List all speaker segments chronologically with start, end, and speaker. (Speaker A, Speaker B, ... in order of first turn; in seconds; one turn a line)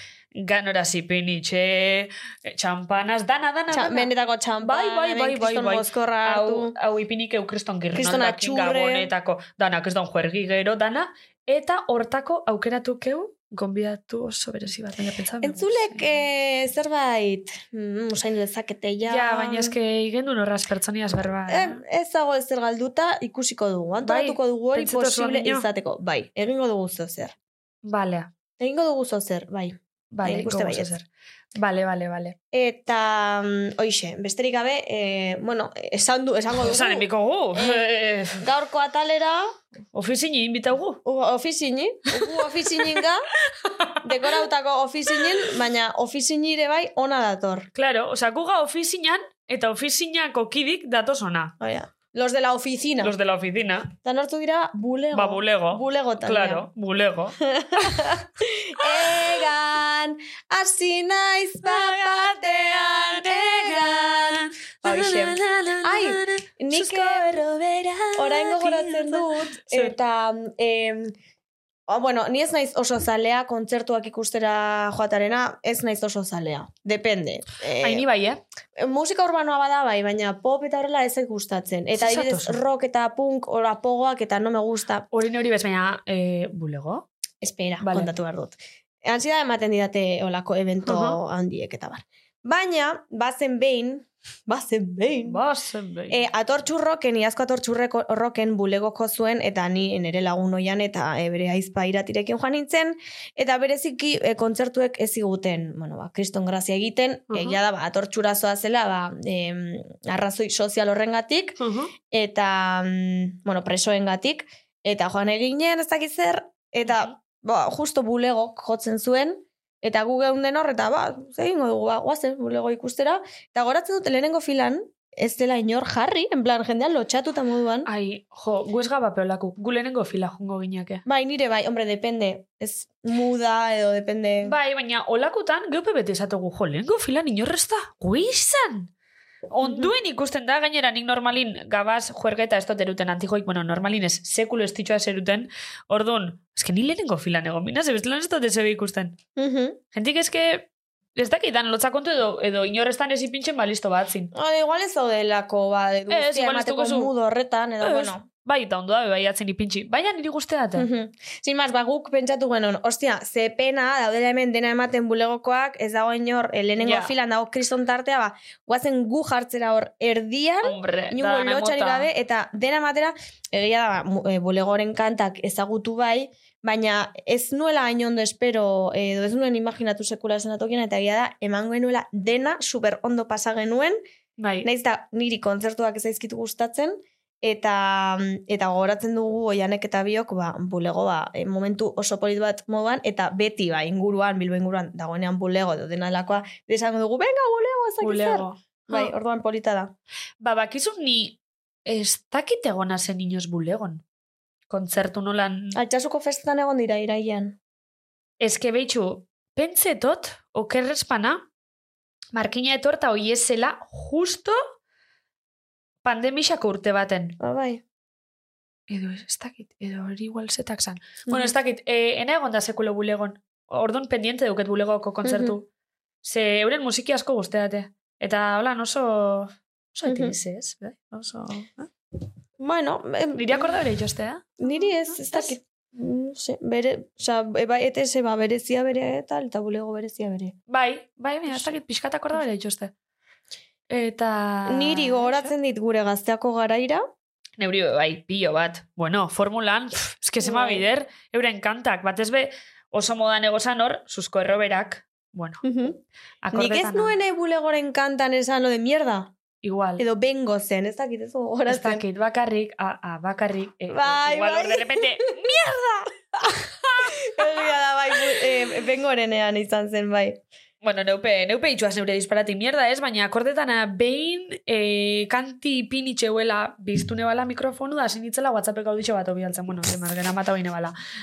Speaker A: 0.3-4.1
Speaker B: 3.7-6.7
Speaker A: 4.6-16.1
Speaker B: 7.9-9.1
Speaker B: 15.4-19.7
Speaker A: 19.1-21.8
Speaker B: 21.5-27.3
Speaker A: 24.0-25.7
Speaker A: 27.8-28.3
Speaker B: 28.6-31.0
Speaker A: 30.1-31.0
Speaker A: 31.6-32.4
Speaker B: 32.5-37.8
Speaker A: 36.6-38.4
Speaker B: 38.4-39.6
Speaker A: 39.9-41.0
Speaker B: 41.0-43.2
Speaker A: 42.1-43.0
Speaker A: 43.5-44.3
Speaker B: 44.0-47.7
Speaker A: 47.7-51.5
Speaker B: 51.6-53.1
Speaker A: 53.0-53.9
Speaker B: 54.0-56.6
Speaker A: 55.1-57.3
Speaker B: 57.4-67.3
Speaker A: 58.8-59.4
Speaker A: 61.6-69.9
Speaker B: 68.2-71.1
Speaker B: 71.9-78.0
Speaker A: 77.8-78.4
Speaker B: 78.8-85.0
Speaker A: 82.0-82.6
Speaker A: 85.1-87.0
Speaker B: 87.4-95.4
Speaker A: 87.8-88.1
Speaker A: 90.9-91.2
Speaker A: 95.2-96.2
Speaker B: 96.1-111.6
Speaker A: 107.3-107.6
Speaker A: 111.6-111.9
Speaker B: 112.1-127.9
Speaker A: 116.8-117.1
Speaker A: 127.8-131.0
Speaker B: 131.0-134.6
Speaker A: 134.4-138.9
Speaker A: 139.5-149.2
Speaker B: 139.6-139.9
Speaker B: 149.4-149.8
Speaker A: 149.9-154.3
Speaker B: 154.3-158.2
Speaker A: 156.1-157.1
Speaker A: 157.8-160.9
Speaker B: 160.8-184.0
Speaker A: 166.8-167.1
Speaker A: 170.6-172.1
Speaker A: 184.4-184.7
Speaker B: 184.6-199.9
Speaker A: 198.0-199.1
Speaker A: 200.4-204.0
Speaker A: 204.7-205.8
Speaker B: 205.7-207.6
Speaker A: 208.4-211.4
Speaker A: 212.3-214.6
Speaker A: 216.0-217.4
Speaker B: 217.4-217.8
Speaker A: 218.9-225.7
Speaker B: 225.2-225.5
Speaker A: 226.2-231.9
Speaker B: 230.1-230.3
Speaker B: 232.6-233.7
Speaker A: 233.3-235.5
Speaker B: 234.6-240.5
Speaker A: 240.7-242.9
Speaker A: 243.9-245.5
Speaker B: 244.7-247.1
Speaker A: 247.6-255.6
Speaker B: 250.4-250.8
Speaker B: 255.6-256.0
Speaker A: 256.4-257.1
Speaker B: 256.5-259.3
Speaker A: 259.6-260.0
Speaker B: 260.0-262.0
Speaker A: 261.7-267.1
Speaker B: 263.9-265.1
Speaker B: 267.2-270.4
Speaker A: 270.8-280.9